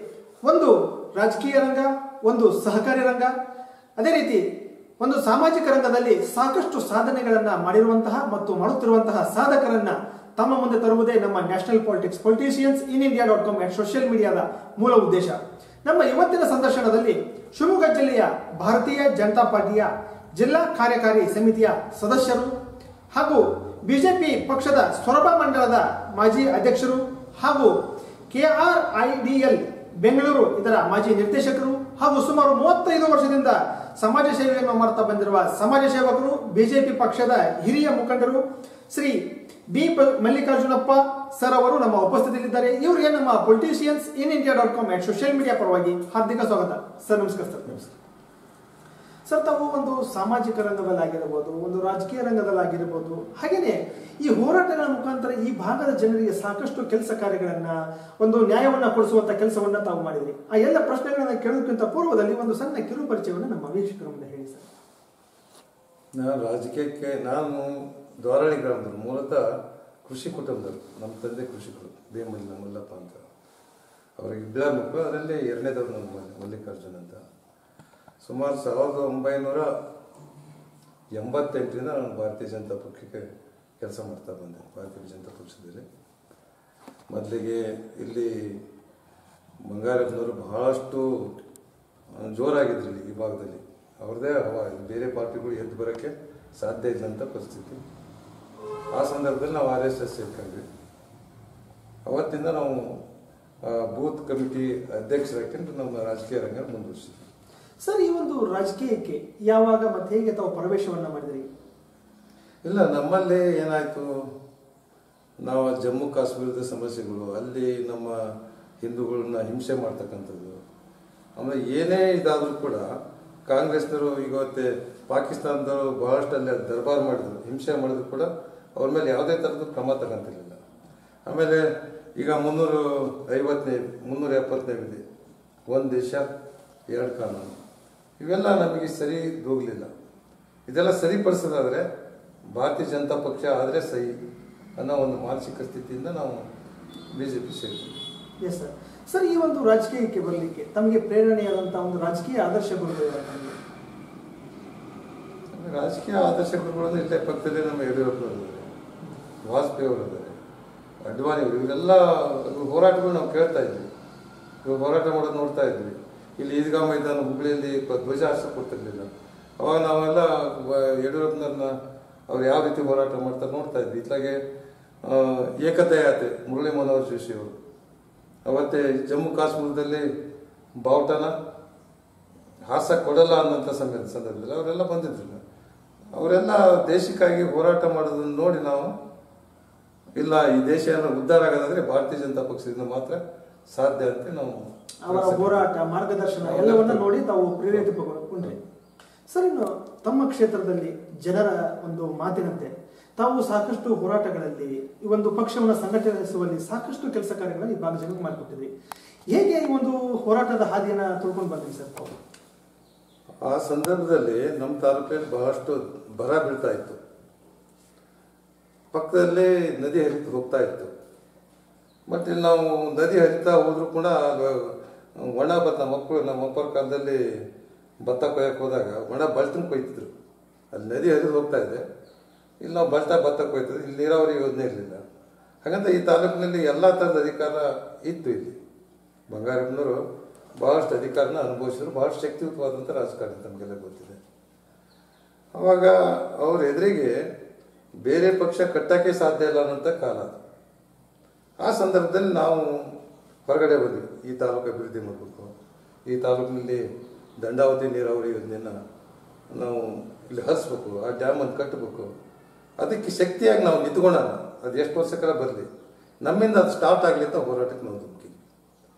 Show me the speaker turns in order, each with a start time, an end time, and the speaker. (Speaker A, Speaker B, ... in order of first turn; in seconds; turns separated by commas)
Speaker A: 0.5-3.3, Speaker A: 4.0-4.5, Speaker A: 5.0-22.5, Speaker A: 23.1-27.8, Speaker A: 28.3-47.9, Speaker A: 49.3-64.7, Speaker B: 66.2-69.5, Speaker B: 70.0-73.2, Speaker B: 74.2-77.2, Speaker B: 78.2-79.7, Speaker B: 81.1-83.2, Speaker B: 83.8-85.8, Speaker B: 87.1-88.6, Speaker B: 89.6-91.4, Speaker B: 92.1-97.8, Speaker B: 98.9-100.7, Speaker B: 102.1-103.0, Speaker B: 103.6-107.3, Speaker A: 107.8-111.5, Speaker B: 112.6-114.3, Speaker B: 115.4-120.6, Speaker B: 121.4-122.9, Speaker B: 123.5-130.6, Speaker B: 131.3-135.0, Speaker B: 135.7-136.3, Speaker B: 136.9-137.6, Speaker B: 138.2-139.9, Speaker B: 140.7-141.8, Speaker B: 142.5-144.2, Speaker B: 144.8-146.4, Speaker B: 147.1-147.9, Speaker A: 148.4-153.6, Speaker B: 155.5-158.7, Speaker B: 159.4-160.4, Speaker B: 161.0-163.9, Speaker B: 164.6-171.8, Speaker B: 172.3-174.4, Speaker B: 175.0-177.5, Speaker B: 178.5-180.1, Speaker B: 180.8-181.3, Speaker B: 182.7-185.4, Speaker B: 186.1-188.9, Speaker B: 190.2-195.7, Speaker A: 195.1-198.6, Speaker B: 196.4-197.1, Speaker A: 199.3-208.7, Speaker A: 209.3-212.2, Speaker B: 213.4-217.0, Speaker B: 218.9-220.9, Speaker B: 222.1-227.2, Speaker B: 228.0-230.1, Speaker B: 230.7-231.8, Speaker B: 232.6-235.0, Speaker B: 235.6-238.6, Speaker B: 239.3-240.0, Speaker B: 240.6-244.2, Speaker B: 245.6-247.2, Speaker B: 248.1-250.4, Speaker B: 251.6-255.5, Speaker B: 256.1-256.9, Speaker B: 257.4-258.8, Speaker B: 259.5-262.1, Speaker B: 262.8-265.7, Speaker B: 266.2-268.4